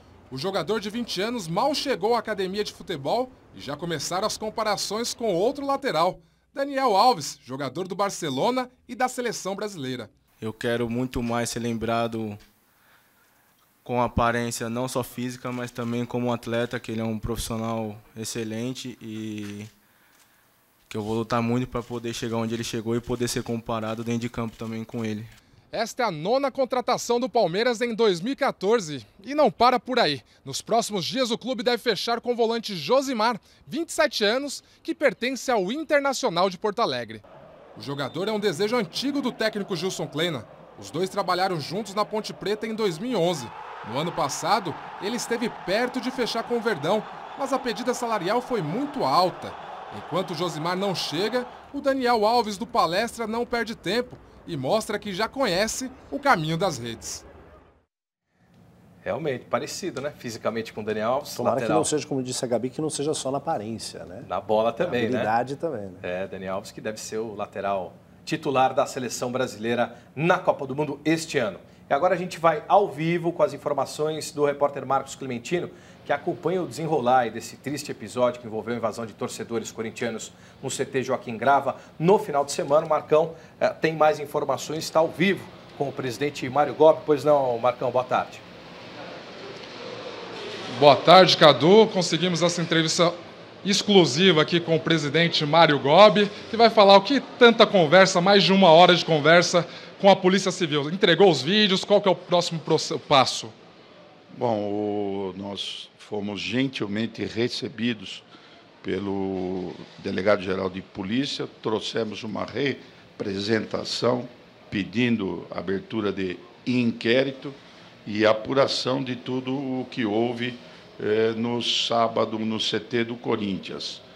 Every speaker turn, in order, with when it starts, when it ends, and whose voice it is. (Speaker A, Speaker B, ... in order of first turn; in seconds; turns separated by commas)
Speaker A: 0.3-10.1, Speaker B: 10.4-12.4, Speaker B: 13.8-19.7, Speaker B: 20.9-25.3, Speaker A: 25.7-37.2, Speaker A: 37.8-57.2, Speaker C: 59.0-61.9, Speaker D: 61.4-64.3, Speaker C: 64.2-65.3, Speaker D: 64.8-66.0, Speaker C: 66.0-88.4, Speaker A: 90.8-103.5, Speaker E: 104.3-108.2, Speaker E: 108.8-124.0